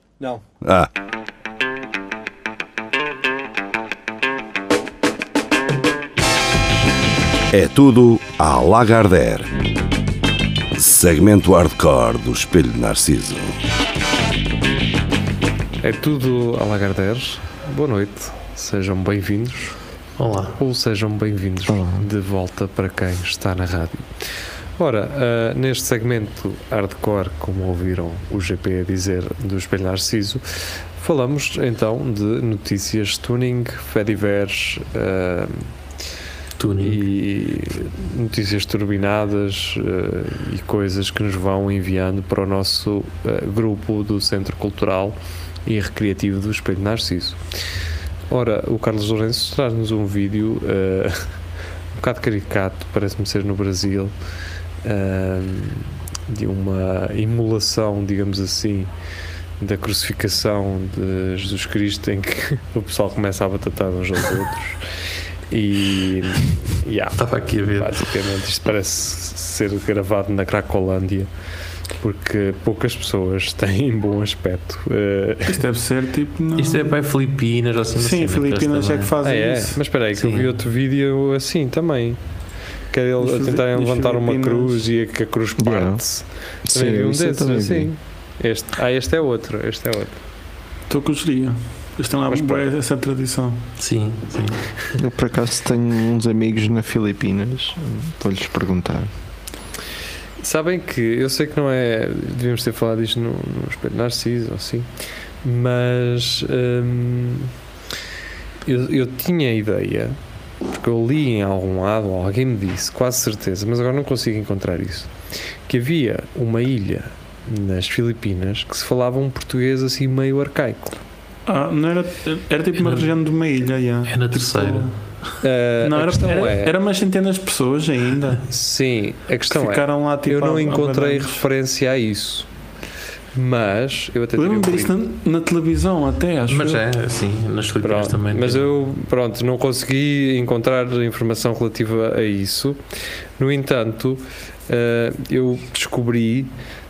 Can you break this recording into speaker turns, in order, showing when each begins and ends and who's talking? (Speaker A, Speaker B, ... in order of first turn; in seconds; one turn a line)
Speaker A: 0.6-0.9
Speaker A: 7.5-9.5
Speaker A: 10.8-13.6
Speaker B: 15.8-19.8
Speaker C: 20.2-20.6
Speaker B: 20.6-24.2
Speaker D: 21.7-22.0
Speaker B: 24.8-30.4
Speaker B: 31.0-35.7
Speaker C: 36.6-37.0
Speaker B: 36.8-47.4
Speaker B: 48.3-51.3
Speaker B: 52.0-54.1
Speaker B: 54.8-58.9
Speaker B: 59.6-64.8
Speaker B: 65.5-71.3
Speaker C: 67.2-68.0
Speaker B: 72.0-75.6
Speaker E: 75.5-76.9
Speaker C: 76.6-79.1
Speaker E: 78.0-79.8
Speaker B: 79.2-82.2
Speaker C: 80.2-80.5
Speaker B: 82.9-90.2
Speaker E: 83.2-84.8
Speaker D: 85.6-86.0
Speaker D: 86.7-87.9
Speaker E: 90.9-93.6
Speaker B: 92.3-92.6
Speaker C: 93.8-94.7
Speaker D: 95.0-99.1
Speaker B: 100.4-104.9
Speaker B: 105.4-107.5
Speaker B: 108.7-115.1
Speaker B: 115.7-121.0
Speaker E: 121.5-124.9
Speaker C: 122.8-123.1
Speaker C: 124.1-124.9
Speaker B: 125.4-126.7
Speaker E: 125.8-128.4
Speaker B: 128.5-132.5
Speaker E: 129.5-131.4
Speaker B: 133.3-134.9
Speaker E: 134.4-136.8
Speaker C: 136.5-138.7
Speaker B: 137.8-142.8
Speaker B: 143.4-146.5